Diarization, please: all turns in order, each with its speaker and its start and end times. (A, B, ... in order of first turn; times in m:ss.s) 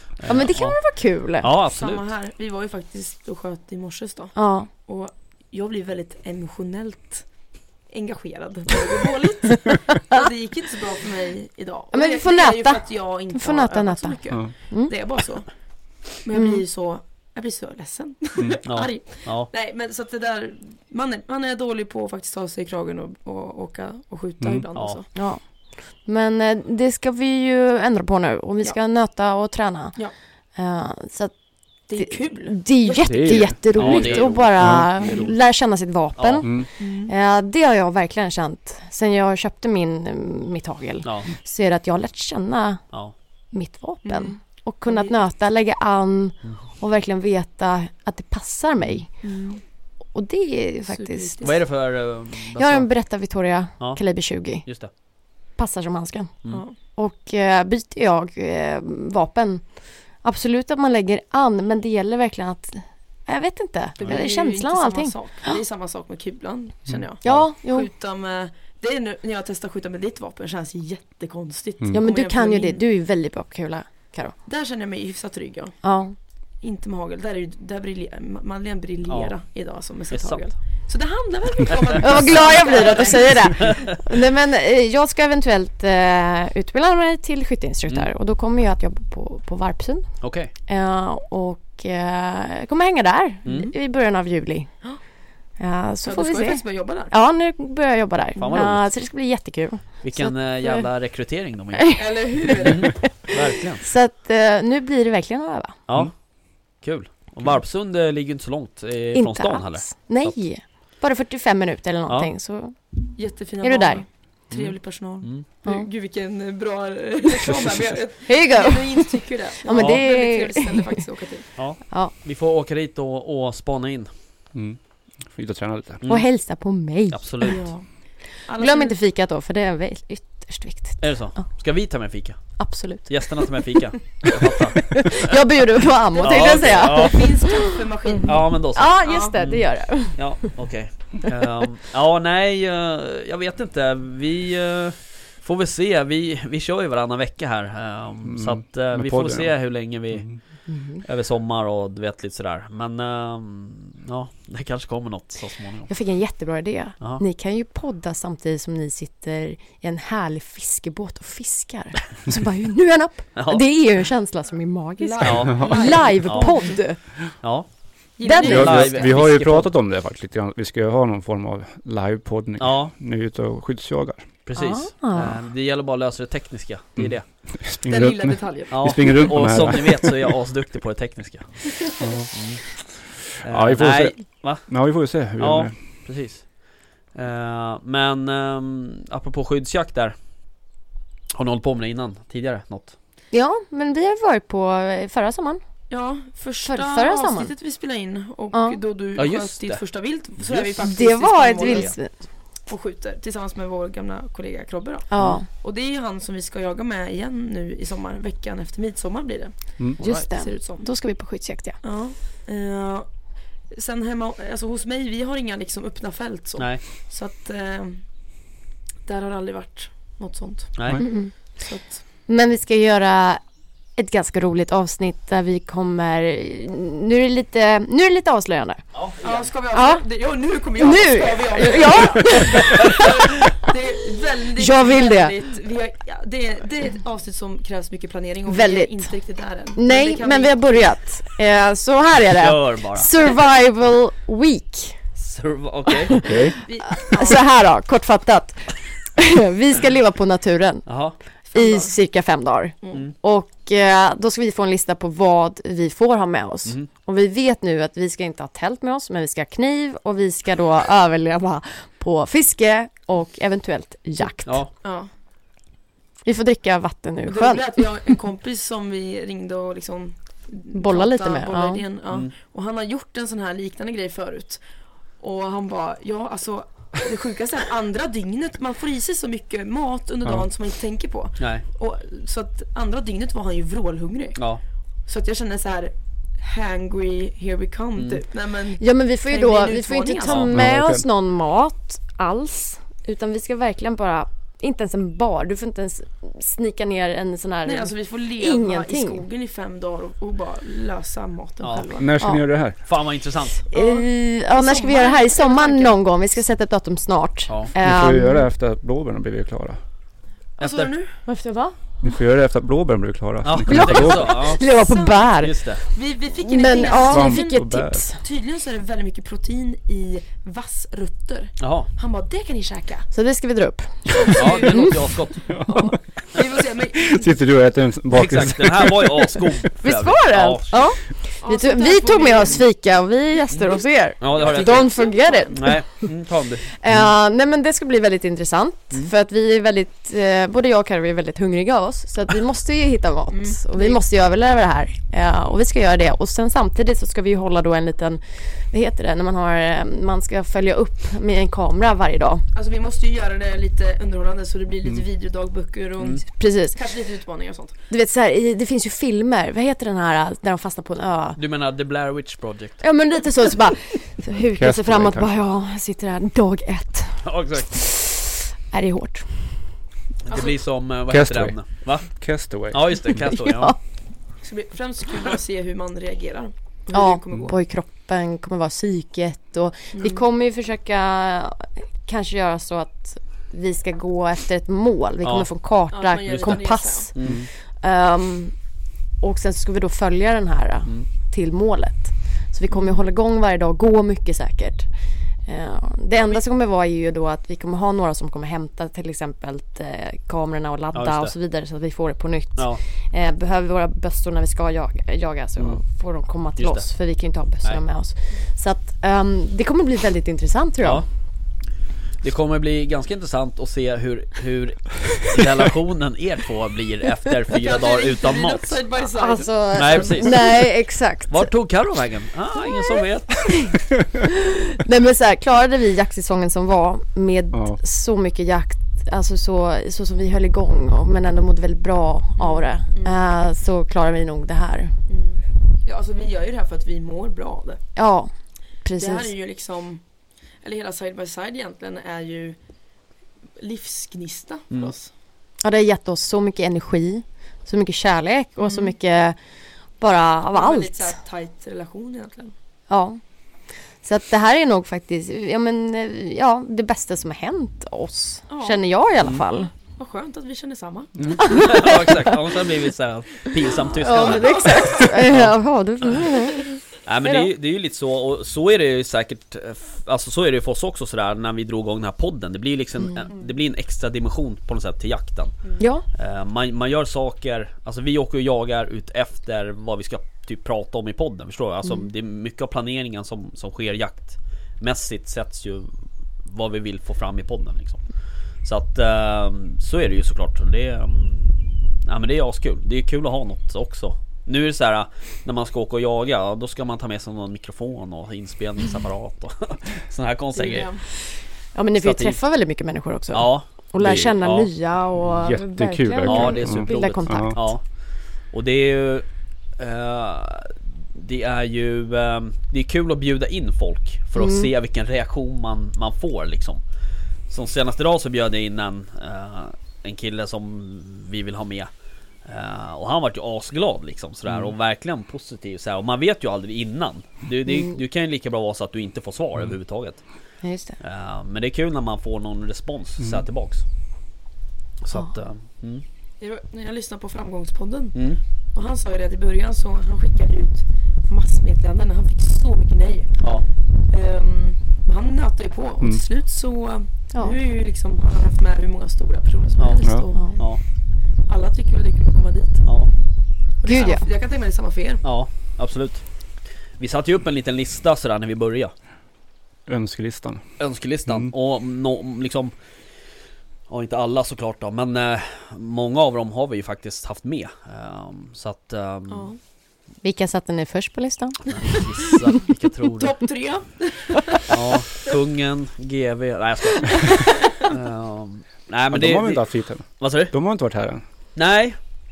0:00.2-0:00.8 A
0:00.3-0:01.5 B
0:01.4-0:02.0 A
0:01.7-0:07.3 C
0:04.3-0:04.7 B
0:07.9-0:15.5 C
0:09.6-0:10.2 B
0:11.9-0:14.9 B
0:16.1-0:25.1 C
0:16.3-0:16.6 B
0:18.6-0:19.5 A
0:24.4-0:24.6 D
0:24.7-0:25.0 A
0:25.1-0:30.0 B
0:30.5-0:31.3 B
0:31.9-0:34.4 C
0:32.0-0:42.8 B
0:33.0-0:35.2 D
0:33.7-0:35.3 A
0:36.2-0:36.5 A
0:36.8-0:37.1 C
0:41.0-0:41.3 A
0:43.5-0:49.1 B
0:44.0-0:45.2 C
0:49.2-0:49.6 C
0:50.1-0:51.5 B
0:50.9-0:51.6 C
0:51.4-0:52.9 A
0:52.5-0:54.7 B
0:54.6-0:54.9 A
0:55.6-1:05.6 B
0:56.5-0:56.8 C
1:04.0-1:12.8 C
1:07.2-1:07.9 B
1:11.9-1:14.3 B
1:14.4-1:15.8 C
1:15.8-1:16.1 B
1:16.6-1:23.8 C
1:19.1-1:19.3 A
1:20.1-1:20.5 A
1:21.7-1:23.9 A
1:22.0-1:30.1 B
1:30.2-1:30.5 A
1:30.7-1:34.7 B
1:33.4-1:33.7 A
1:35.6-1:40.9 B
1:36.0-1:37.1 C
1:38.4-1:38.9 A
1:40.0-1:43.8 A
1:41.7-1:45.8 B
1:41.9-1:43.0 C
1:45.9-1:46.1 A
1:46.8-1:50.4 A
1:49.1-1:52.9 B
1:53.2-2:01.5 C
1:53.6-1:54.0 B
1:54.5-1:55.4 A
1:57.5-1:57.8 D
1:58.3-2:01.0 B
1:59.7-2:00.0 A
2:01.6-2:04.1 A
2:04.5-2:06.0 D
2:06.0-2:07.6 B
2:07.1-2:07.6 A
2:07.4-2:07.9 C
2:08.4-2:09.0 C
2:08.6-2:11.4 B
2:11.0-2:12.5 A
2:12.6-2:13.5 B
2:13.0-2:15.4 A
2:14.2-2:20.5 B
2:16.1-2:19.3 C
2:16.2-2:17.3 A
2:18.2-2:30.4 A
2:28.2-2:29.5 D
2:30.7-2:31.0 B
2:31.0-2:35.9 A
2:35.9-2:47.0 B
2:43.4-2:43.6 A
2:45.0-2:46.8 C
2:45.2-2:46.5 A
2:47.4-2:47.7 A
2:48.2-2:49.2 C
2:48.2-2:48.7 B
2:48.3-2:49.7 A
2:48.4-2:54.2 D
2:52.6-2:52.9 A
2:54.4-2:57.2 A
2:54.6-2:55.4 B
2:57.0-3:00.3 D
2:57.8-2:59.3 C
2:58.7-3:02.6 A
3:02.0-3:02.3 D
3:03.2-3:04.7 A
3:03.4-3:05.7 D
3:05.4-3:06.6 A
3:07.1-3:10.2 A
3:11.3-3:12.9 A
3:13.3-3:15.6 B
3:15.9-3:22.0 C
3:16.6-3:17.5 B
3:18.5-3:18.8 B
3:19.1-3:19.8 A
3:20.4-3:20.9 A
3:20.8-3:22.1 B
3:21.6-3:21.9 A
3:22.7-3:30.9 C
3:25.1-3:25.4 B
3:30.0-3:31.8 B
3:31.8-3:33.1 C
3:33.7-3:38.0 C
3:36.6-3:36.8 A
3:39.0-3:42.0 C
3:40.8-3:41.0 A
3:41.0-3:41.3 B
3:42.0-3:43.4 B
3:44.0-3:48.8 B
3:48.9-3:49.5 A
3:49.2-4:00.7 C
3:49.7-3:50.0 B
3:50.7-3:53.7 B
3:54.6-3:55.3 B
3:58.5-3:59.1 B
3:59.8-4:05.0 B
4:02.4-4:03.1 A
4:05.2-4:06.2 A
4:06.1-4:10.8 B
4:06.2-4:06.5 D
4:06.6-4:07.4 C
4:10.8-4:11.2 A
4:11.5-4:11.9 C
4:11.5-4:24.6 B
4:24.8-4:25.1 C
4:26.2-4:28.1 B
4:27.2-4:34.6 C
4:30.7-4:31.8 B
4:35.2-4:44.4 C
4:41.4-4:41.6 A
4:45.1-4:50.5 C
4:48.0-4:48.2 A
4:48.8-4:59.2 B
4:50.2-4:50.5 A
4:50.5-4:51.0 D
4:57.6-5:02.1 C
5:01.6-5:01.9 A
5:02.0-5:02.8 D
5:02.8-5:03.6 A
5:03.7-5:06.0 C
5:03.7-5:08.4 B
5:07.8-5:09.8 D
5:10.6-5:10.9 A
5:10.6-5:11.1 C
5:11.2-5:11.8 B
5:12.0-5:14.3 D
5:13.4-5:14.6 A
5:13.6-5:15.7 B
5:14.7-5:17.7 C
5:15.4-5:15.8 A
5:16.4-5:18.2 B
5:17.0-5:18.0 D
5:18.2-5:23.1 C
5:21.6-5:21.9 A
5:23.1-5:25.0 B
5:24.1-5:25.0 C
5:24.3-5:25.6 A
5:25.5-5:25.9 D
5:25.6-5:27.3 C
5:27.0-5:29.5 D
5:28.1-5:30.8 A
5:29.8-5:36.1 B
5:31.4-5:32.6 C
5:34.2-5:36.6 A
5:34.3-5:35.6 C
5:36.7-5:52.4 B
5:43.3-5:44.0 C
5:52.5-5:57.7 C
5:56.4-5:56.8 B
5:57.9-6:01.4 B
6:01.4-6:02.8 A
6:02.8-6:09.5 B
6:04.6-6:05.3 D
6:07.2-6:07.7 A
6:10.2-6:12.1 A
6:10.3-6:10.5 C
6:11.1-6:13.2 D
6:12.7-6:13.8 A
6:13.2-6:13.8 B
6:14.4-6:17.5 C
6:16.9-6:28.6 B
6:19.9-6:20.2 C
6:25.2-6:25.5 A
6:25.9-6:27.1 C
6:26.3-6:26.6 A
6:27.1-6:27.4 A
6:27.2-6:27.5 D
6:29.2-6:34.9 B
6:32.7-6:33.0 C
6:35.4-6:51.0 B
6:36.1-6:36.4 C
6:40.9-6:41.3 A
6:46.6-6:46.8 A
6:52.2-6:58.8 A
6:57.5-7:00.4 C
6:59.1-7:01.5 B
6:59.7-7:00.7 A
7:01.3-7:03.6 A
7:03.4-7:14.9 B
7:07.5-7:07.8 D
7:12.4-7:13.2 C
7:15.1-7:17.8 C
7:18.0-7:18.3 B
7:18.8-7:19.3 B
7:19.0-7:20.0 C
7:20.6-7:22.6 C
7:23.6-7:25.1 C
7:25.6-7:29.4 B
7:28.6-7:28.9 C
7:30.0-7:31.2 B
7:30.5-7:32.5 C
7:32.9-7:33.2 B
7:34.0-7:39.7 B
7:38.5-7:38.8 C
7:39.9-7:41.4 C
7:41.4-7:45.5 A
7:41.4-7:42.3 B
7:43.9-7:45.1 C
7:44.0-7:47.5 B
7:47.0-8:05.9 A
7:55.8-7:56.0 B
8:06.4-8:08.0 A
8:08.6-8:21.0 A
8:20.5-8:21.0 C
8:21.7-8:27.7 B
8:22.0-8:22.4 A
8:23.3-8:24.7 A
8:24.0-8:24.3 D
8:25.2-8:27.6 D
8:26.2-8:27.8 A
8:28.5-8:29.2 A
8:29.8-8:36.8 A
8:34.4-8:34.7 B
8:37.5-8:41.9 A
8:42.4-8:50.2 A
8:47.6-8:48.0 B
8:50.6-8:51.0 B
8:51.0-8:53.8 A
8:55.0-8:56.0 A
8:56.4-8:58.2 C
8:58.1-8:58.4 A
8:58.7-9:03.3 C
9:03.4-9:03.6 A
9:04.1-9:10.7 C
9:09.8-9:10.8 A
9:10.3-9:10.6 B
9:11.5-9:12.8 C
9:12.8-9:13.1 A
9:13.8-9:15.2 C
9:13.8-9:14.2 B
9:15.2-9:16.2 A
9:17.0-9:18.9 A
9:19.9-9:20.6 D
9:20.8-9:22.7 A
9:23.9-9:29.5 A
9:29.3-9:29.6 C
9:30.2-9:32.0 B
9:31.7-9:33.4 A
9:33.1-9:34.7 C
9:34.7-9:39.6 A
9:37.2-9:37.9 C
9:39.1-9:41.2 D
9:40.2-9:40.5 A
9:41.6-9:42.0 A